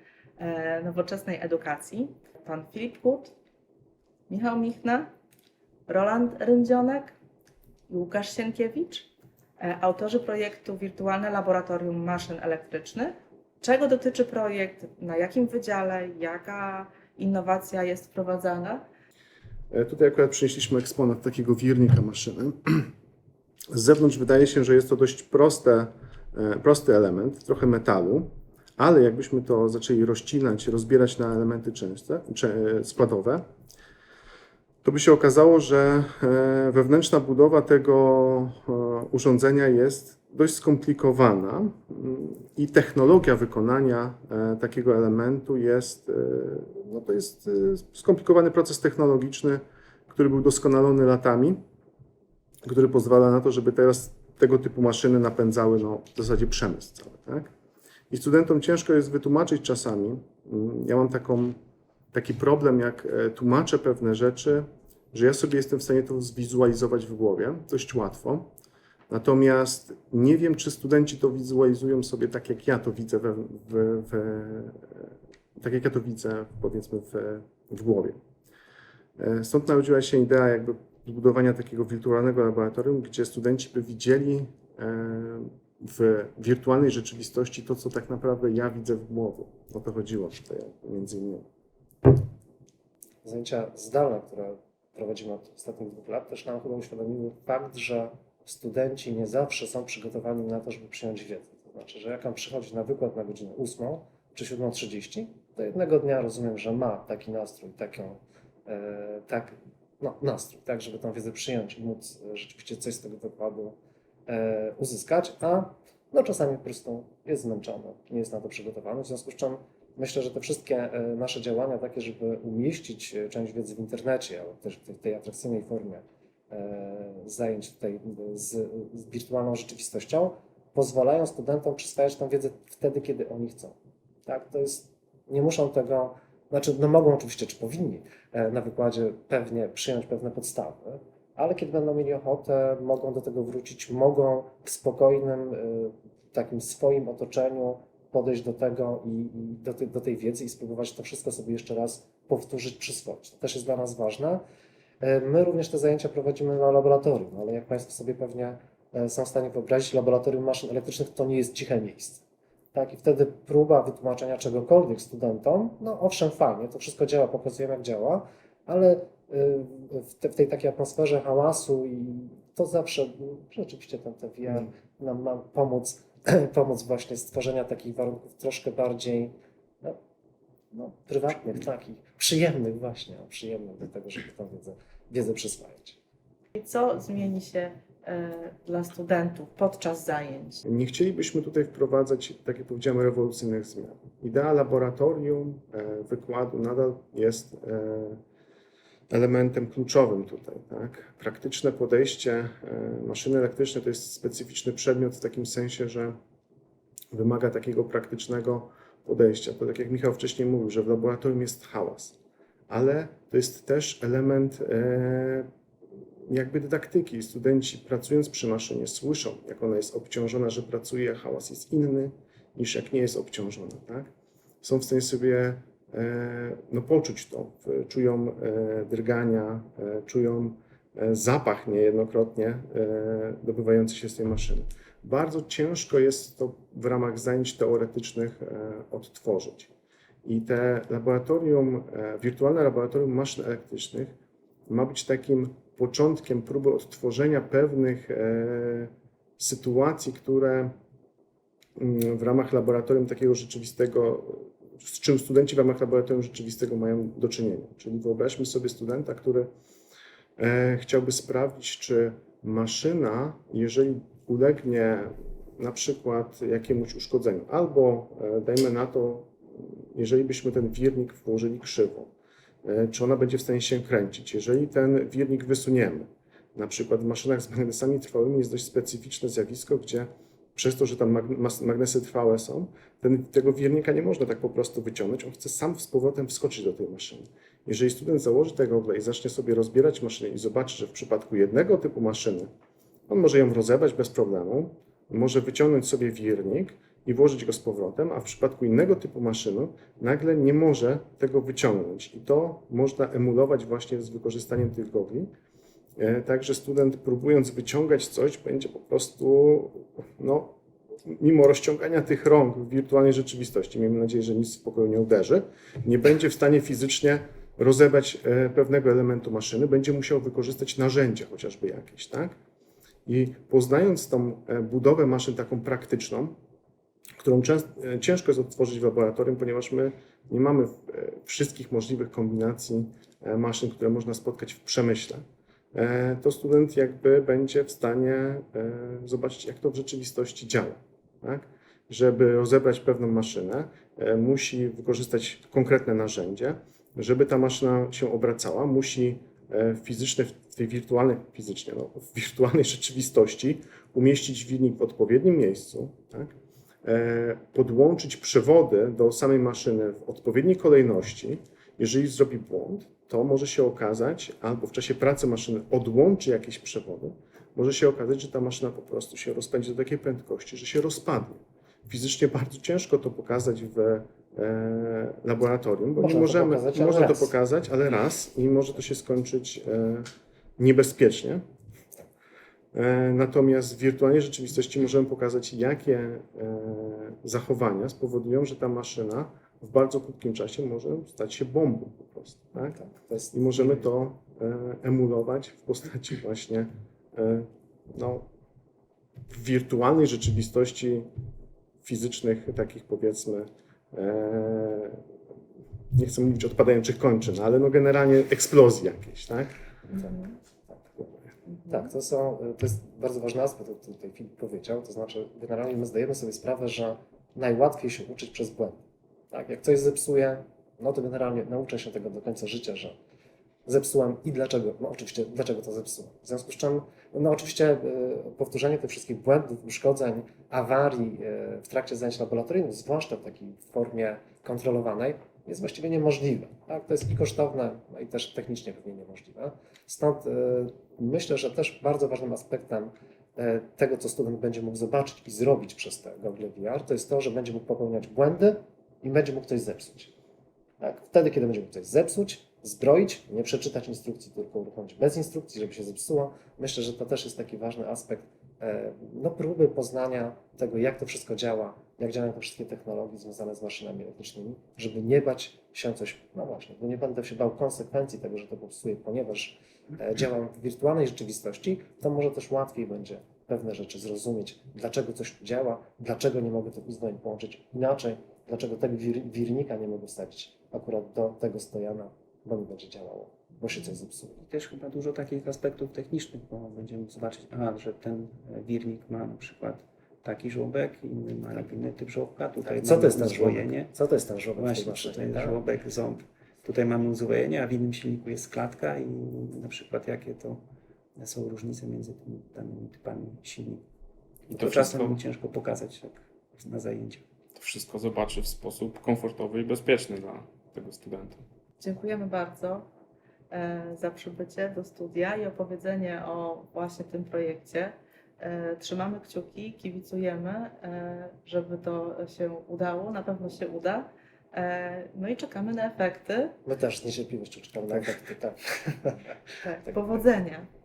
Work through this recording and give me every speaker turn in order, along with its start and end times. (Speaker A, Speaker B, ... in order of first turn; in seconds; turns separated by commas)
Speaker A: 0.4-3.3, Speaker A: 4.3-5.1, Speaker A: 5.9-7.2, Speaker A: 7.9-18.8, Speaker B: 19.7-22.9, Speaker B: 23.7-33.4, Speaker B: 34.8-51.6, Speaker B: 52.6-57.5, Speaker B: 58.1-61.6, Speaker B: 62.1-68.5, Speaker B: 69.1-78.2, Speaker B: 79.2-91.5, Speaker C: 93.2-113.8, Speaker C: 114.3-154.4, Speaker C: 155.0-162.2, Speaker C: 162.7-180.0, Speaker C: 180.7-186.0, Speaker A: 186.6-190.6, Speaker B: 190.7-198.2, Speaker B: 199.1-206.2, Speaker B: 207.1-212.2, Speaker B: 212.7-215.5, Speaker B: 216.3-224.1, Speaker B: 224.6-239.7, Speaker B: 240.2-244.2, Speaker B: 244.7-250.7, Speaker B: 251.8-259.5, Speaker B: 260.4-272.1, Speaker B: 272.6-292.5, Speaker B: 293.1-305.3, Speaker B: 306.0-310.6, Speaker B: 311.1-322.4, Speaker B: 323.1-326.4, Speaker B: 327.2-335.2, Speaker B: 335.7-381.4, Speaker C: 376.0-377.4, Speaker B: 382.7-392.8, Speaker C: 392.6-393.9, Speaker B: 393.3-398.3, Speaker B: 399.3-401.1, Speaker B: 401.8-405.0, Speaker B: 405.9-409.5, Speaker A: 409.9-410.3, Speaker C: 411.7-423.0, Speaker C: 423.7-450.1, Speaker C: 450.8-484.4, Speaker D: 484.4-493.9, Speaker C: 492.7-495.6, Speaker D: 494.6-500.6, Speaker D: 501.2-503.8, Speaker D: 504.5-507.2, Speaker E: 507.8-509.8, Speaker B: 508.3-508.9, Speaker B: 509.9-510.7, Speaker E: 510.8-511.2, Speaker A: 511.8-512.9, Speaker A: 513.5-526.5, Speaker C: 526.7-529.3, Speaker A: 529.6-530.7